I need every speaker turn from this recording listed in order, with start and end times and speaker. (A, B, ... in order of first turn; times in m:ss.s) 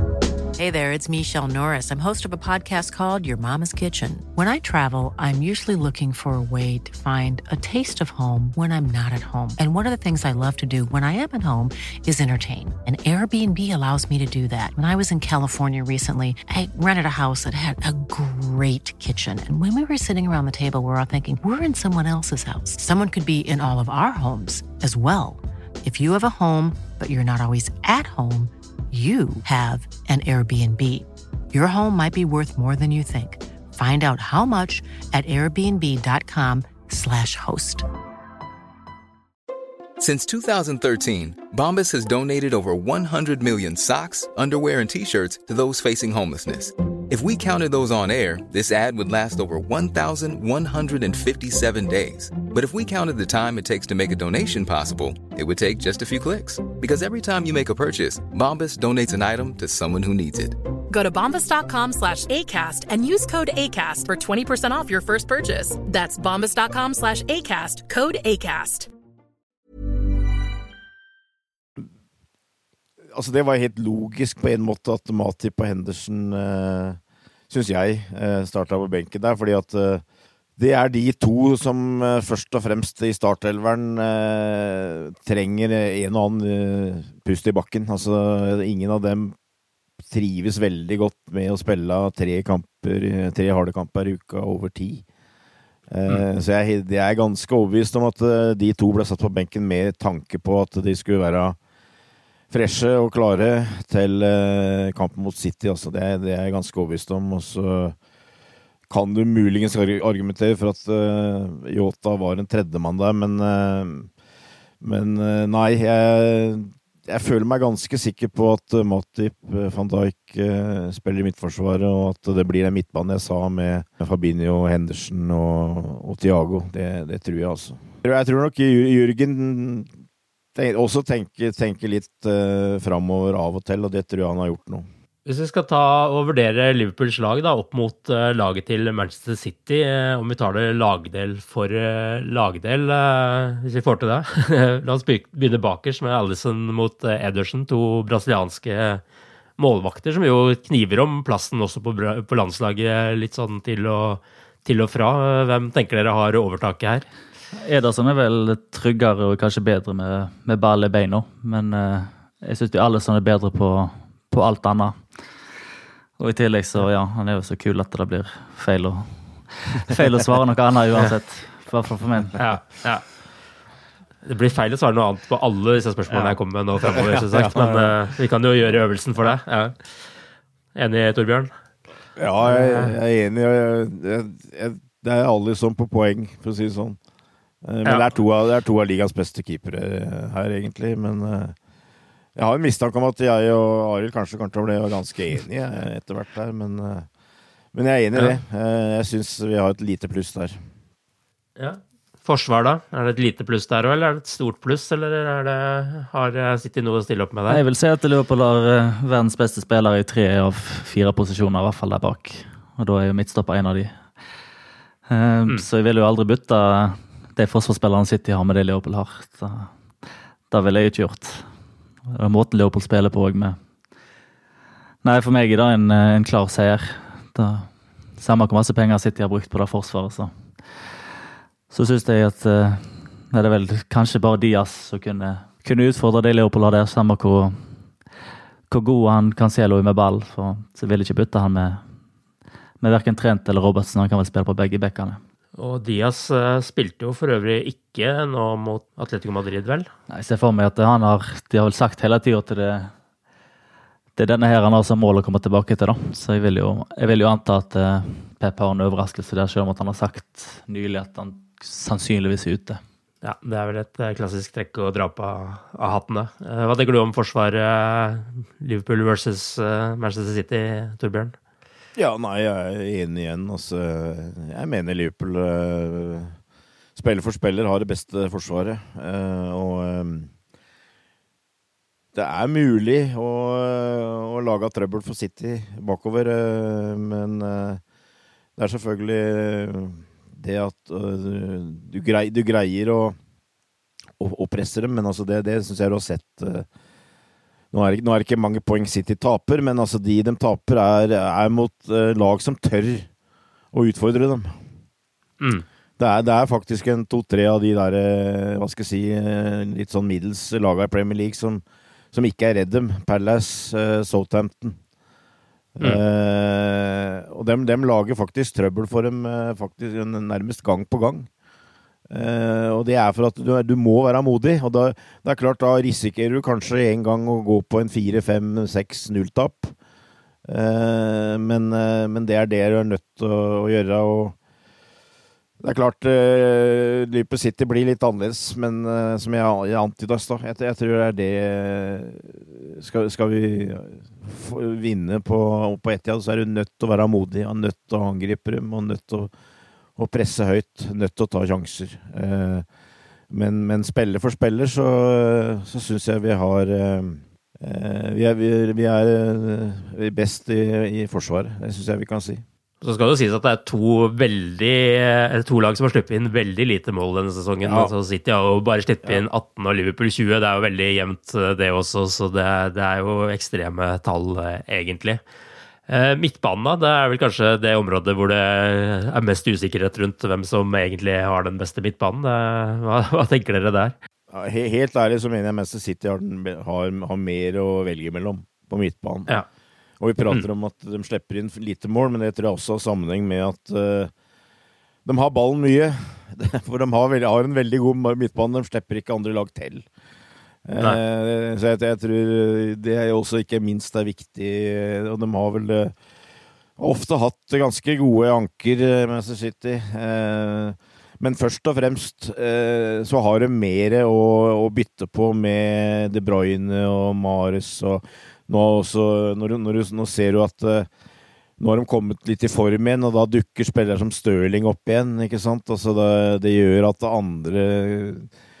0:00.6-0:37.8 A
0:40.0-1:00.6 B
1:00.9-1:08.9 C
1:13.1-1:17.0 D
1:17.5-1:20.0 D
1:20.6-1:29.4 D
1:30.0-1:35.0 D
1:35.9-1:41.6 D
1:42.5-1:48.0 D
1:48.9-1:54.1 D
1:54.8-2:09.9 D
2:10.5-2:14.9 D
2:15.2-2:29.0 E
2:29.6-2:37.0 E
2:37.6-2:45.0 F
2:46.2-2:52.4 F
2:52.4-2:53.0 E
2:54.2-2:59.8 E
2:56.1-2:57.9 D
3:00.7-3:01.5 E
3:02.2-3:07.0 D
3:02.4-3:03.0 E
3:07.6-3:11.6 D
3:12.4-3:17.1 D
3:17.7-3:20.6 D
3:21.6-3:27.6 E
3:27.5-3:34.0 F
3:35.1-3:39.7 F
3:40.5-3:41.5 F
3:42.1-3:43.6 F
3:45.0-3:50.3 F
3:51.7-3:57.7 F
3:58.7-4:01.8 F
4:02.8-4:05.2 F
4:05.6-4:09.9 E
4:10.1-4:12.9 F
4:14.2-4:22.8 F
4:23.2-4:31.3 E
4:32.0-4:36.4 D
4:37.0-4:40.3 D
4:42.1-4:47.8 D
4:48.6-4:53.2 D
4:54.2-4:56.7 D
4:57.7-5:03.1 D
5:03.7-5:04.5 D
5:05.4-5:05.6 E
5:06.0-5:14.8 D
5:15.8-5:21.3 D
5:22.1-5:29.7 D
5:30.4-5:34.4 D
5:35.6-5:49.3 D
5:50.0-5:52.6 D
5:53.3-6:02.4 D
6:02.8-6:15.2 E
6:07.6-6:07.9 D
6:15.9-6:23.9 E
6:24.3-6:29.3 D
6:30.0-6:34.1 D
6:35.0-6:39.8 D
6:40.6-6:45.9 D
6:46.8-7:00.9 D
7:01.6-7:08.3 D